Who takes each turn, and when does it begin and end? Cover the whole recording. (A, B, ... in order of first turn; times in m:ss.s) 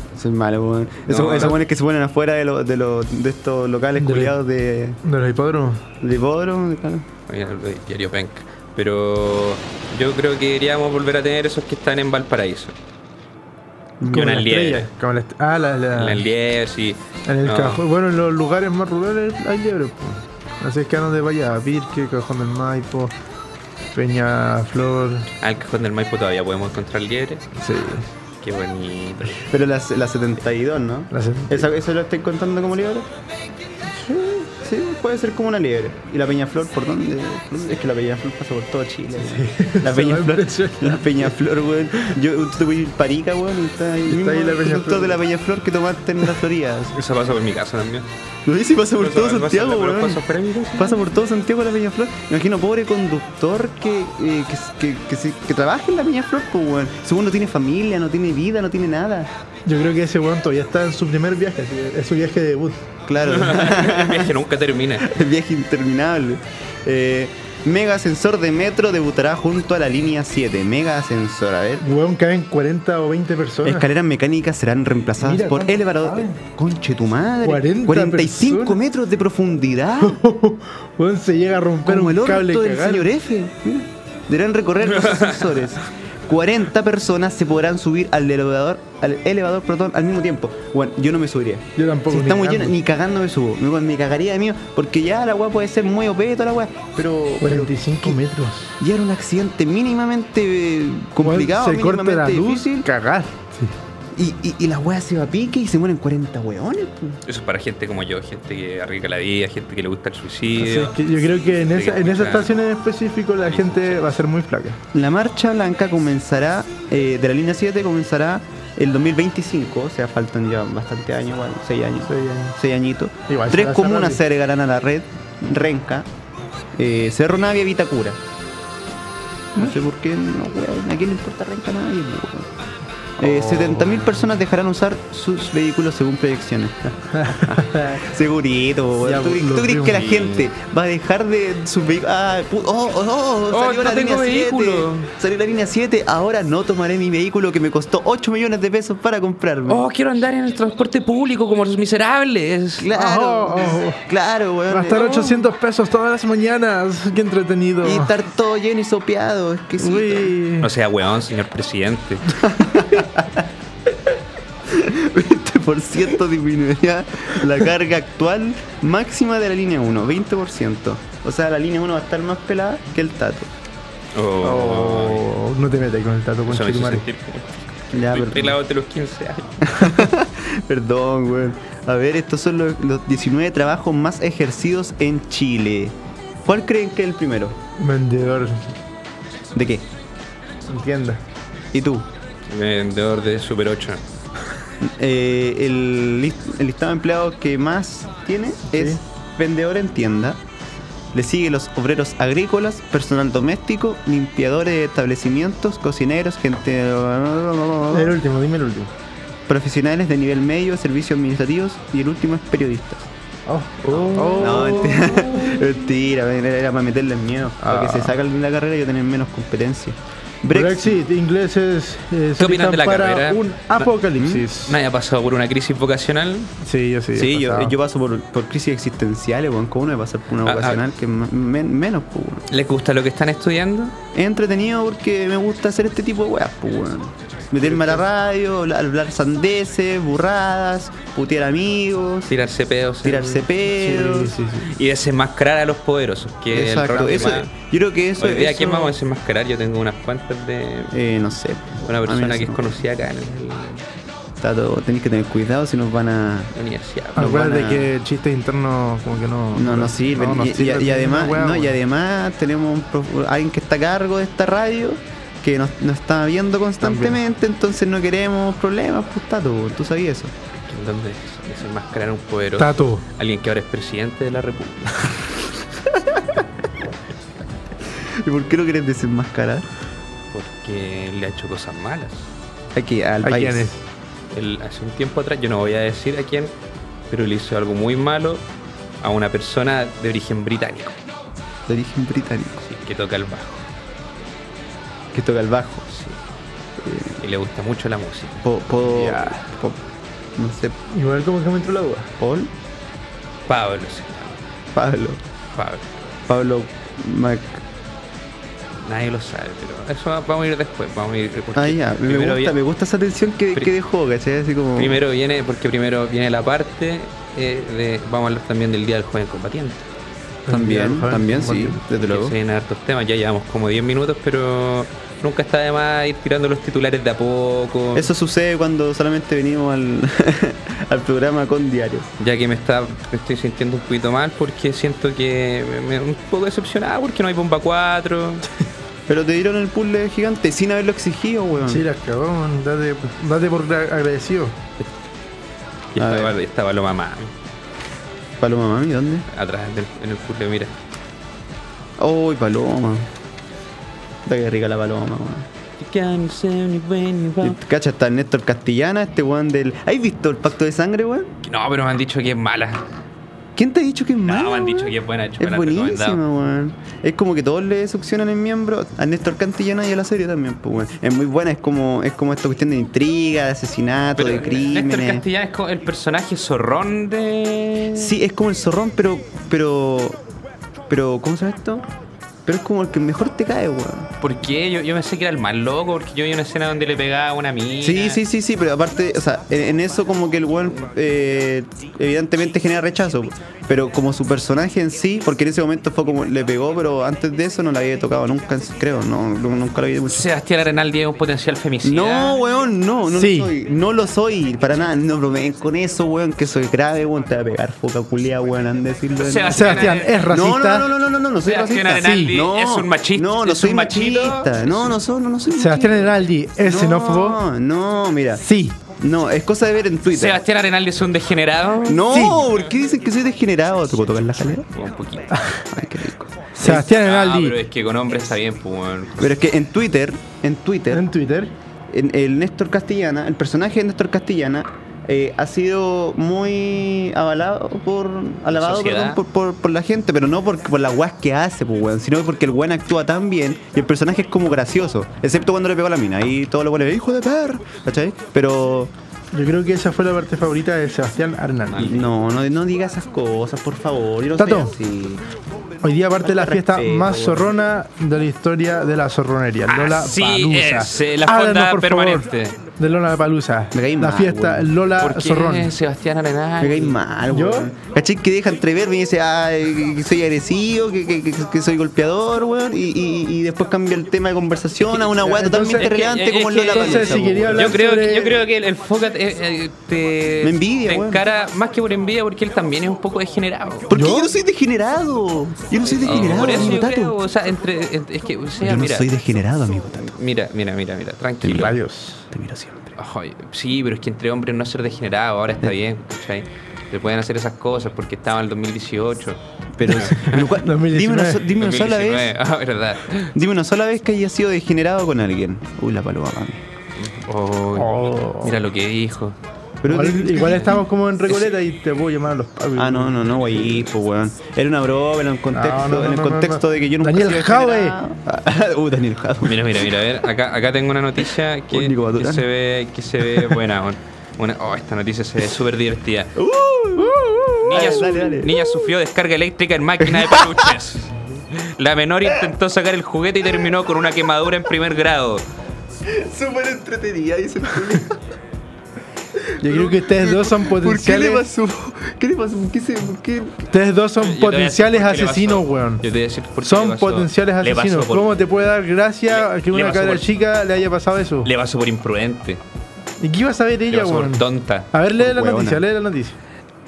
0:00.2-0:05.0 A
0:01.1-0:01.6 B
0:04.0-0:04.4 C
0:05.0-0:05.9 C
0:06.0-0:07.1 A
0:07.3-0:12.7 B
0:14.1-0:16.3 C
0:14.1-0:14.9 B
0:15.9-0:17.8 B
0:17.3-0:23.1 C
0:23.9-0:25.3 C
0:25.4-0:27.4 B
0:27.6-0:28.1 C
0:28.4-0:29.5 B
0:29.4-0:33.1 A
0:31.1-0:31.7 C
0:33.9-0:34.5 C
0:34.6-0:47.0 A
0:39.2-0:41.3 C
0:44.1-0:45.2 C
0:47.0-0:48.1 B
0:48.4-0:50.2 A
0:49.0-0:51.1 B
0:50.7-0:59.3 A
0:59.7-1:02.8 C
1:03.1-1:04.4 A
1:03.2-1:05.1 B
1:05.0-1:11.8 A
1:11.8-1:13.9 C
1:13.6-1:20.2 A
1:15.2-1:16.4 C
1:17.4-1:18.8 C
1:20.0-1:23.1 C
1:21.8-1:38.2 A
1:25.0-1:25.7 B
1:31.8-1:32.8 C
1:37.4-1:38.8 C
1:38.8-1:42.9 A
1:41.2-1:43.8 C
1:44.2-1:47.2 A
1:47.3-1:52.6 B
1:50.6-1:54.8 C
1:53.5-1:54.2 B
1:54.9-2:06.1 A
2:02.1-2:02.6 C
2:03.3-2:04.2 C
2:06.8-2:08.2 A
2:09.5-2:12.5 A
2:13.2-2:29.9 A
2:13.2-2:14.1 C
2:17.1-2:18.1 C
2:19.0-2:20.3 C
2:20.1-2:20.4 B
2:23.5-2:25.1 B
2:29.7-2:32.9 B
2:32.8-2:35.5 A
2:32.9-2:34.0 C
2:34.7-2:38.1 C
2:37.8-2:40.3 A
2:39.8-2:40.7 C
2:40.6-2:42.4 B
2:42.4-2:43.5 A
2:44.7-2:53.5 A
2:54.2-2:55.3 B
2:54.4-2:57.0 C
2:56.5-2:59.9 B
2:57.9-2:58.6 A
2:59.6-3:07.6 A
3:07.8-3:08.7 C
3:09.6-3:09.9 A
3:10.7-3:11.2 C
3:11.7-3:12.1 A
3:12.5-3:14.0 B
3:14.8-3:20.4 A
3:18.7-3:19.0 C
3:21.1-3:28.2 A
3:27.9-3:28.9 C
3:29.5-3:33.1 A
3:33.5-3:35.6 C
3:33.8-3:35.0 B
3:34.4-3:40.9 A
3:37.6-3:38.1 C
3:40.5-3:44.8 C
3:42.4-3:43.9 B
3:44.2-3:44.4 A
3:44.6-3:46.5 B
3:46.6-3:47.7 C
3:47.2-3:52.4 A
3:50.4-3:50.8 B
3:52.5-3:54.0 B
3:54.1-4:02.3 A
3:57.6-3:58.0 B
4:02.3-4:03.5 B
4:03.0-4:04.4 A
4:03.7-4:04.8 C
4:04.7-4:07.5 B
4:06.5-4:08.9 A
4:08.2-4:11.0 B
4:10.9-4:12.8 A
4:11.9-4:13.9 B
4:14.4-4:16.5 A
4:16.5-4:17.4 B
4:17.2-4:17.9 A
4:17.2-4:21.8 C
4:19.6-4:30.3 A
4:26.8-4:27.2 C
4:30.6-4:35.2 B
4:32.6-4:33.0 C
4:35.9-4:36.4 A
4:38.0-4:39.7 A
4:40.3-4:42.3 B
4:42.8-4:43.7 A
4:43.2-4:43.8 C
4:44.3-4:46.5 B
4:47.1-4:48.4 B
4:49.0-4:51.0 B
4:51.7-4:52.6 A
4:52.6-4:53.6 B
4:55.1-4:55.9 A
4:55.9-4:56.2 B
4:56.8-4:57.2 A
4:57.2-4:59.2 B
4:58.4-4:59.8 A
4:59.0-4:59.4 C
5:00.4-5:00.8 A
5:00.9-5:02.2 C
5:02.2-5:02.5 A
5:03.5-5:04.4 B
5:04.8-5:05.2 A
5:05.5-5:06.0 B
5:06.3-5:07.6 A
5:08.8-5:12.6 B
5:11.6-5:15.0 A
5:14.8-5:19.9 B
5:20.5-5:21.8 C
5:20.5-5:22.4 A
5:22.0-5:28.1 B
5:27.9-5:32.1 A
5:32.2-5:38.4 B
5:39.1-5:41.9 A
5:41.6-5:44.6 C
5:45.9-5:47.3 B
5:46.0-5:46.4 A
5:48.4-5:49.3 A
5:49.3-5:50.7 B
5:52.0-5:53.1 A
5:54.2-5:55.5 A
5:55.8-5:57.6 B
5:57.4-6:01.3 A
6:01.4-6:02.8 B
6:03.6-6:15.3 A
6:04.3-6:06.2 B
6:14.2-6:18.1 B
6:17.9-6:20.2 A
6:20.9-6:21.9 A
6:22.5-6:24.1 A
6:24.2-6:28.2 B
6:27.8-6:40.3 A
6:40.1-6:42.4 B
6:41.8-6:58.4 A
6:43.2-6:43.5 C
6:49.2-6:50.3 B
6:49.5-6:50.9 C
6:51.4-6:55.0 B
6:52.0-6:52.3 C
6:55.5-6:57.4 C
6:58.4-6:58.8 C
6:59.0-7:00.4 A
7:00.1-7:02.1 B
7:01.8-7:04.7 A
7:02.1-7:02.5 C
7:04.7-7:05.3 B
7:05.3-7:05.6 C
7:05.7-7:06.8 A
7:06.6-7:07.6 C
7:06.6-7:09.4 B
7:09.2-7:11.1 A
7:10.9-7:11.5 C
7:11.9-7:28.9 A
7:18.5-7:19.2 B
7:29.3-7:32.0 C
7:31.7-7:32.1 B
7:31.8-7:35.2 A
7:34.4-7:34.7 C
7:35.8-7:42.3 C
7:36.2-7:37.5 A
7:39.7-7:42.6 B
7:42.8-7:45.7 C
7:43.7-7:44.8 A
7:45.0-7:47.0 B
7:46.6-7:57.7 A
7:47.3-7:47.7 C
7:55.2-7:55.9 C
7:55.7-8:03.9 B
7:56.7-7:58.4 C
8:00.4-8:01.2 A
8:03.9-8:07.2 A
8:03.9-8:04.3 C
8:05.9-8:09.1 B
8:08.6-8:10.2 A
8:10.0-8:11.8 B
8:11.4-8:11.7 A
8:11.5-8:12.3 C
8:12.3-8:13.0 A
8:13.0-8:20.6 B
8:19.8-8:22.3 A
8:20.5-8:21.4 C
8:21.5-8:23.3 B
8:23.3-8:26.6 A
8:27.0-8:29.4 B
8:27.8-8:28.6 C
8:29.8-8:30.8 A
8:29.9-8:33.6 C
8:30.4-8:30.8 B
8:32.8-8:39.9 A
8:35.5-8:38.0 C
8:39.4-8:46.4 B
8:41.7-8:42.5 A
8:46.4-8:48.9 A
8:47.6-8:55.4 B
8:50.0-8:50.7 A
8:56.0-8:58.2 A
8:59.6-9:03.7 A
8:59.6-9:01.5 C
9:03.7-9:06.0 C
9:04.2-9:08.5 B
9:06.6-9:11.5 C
9:09.3-9:10.2 B
9:11.4-9:12.6 B
9:13.2-9:16.4 C
9:13.9-9:14.9 B
9:15.2-9:15.8 A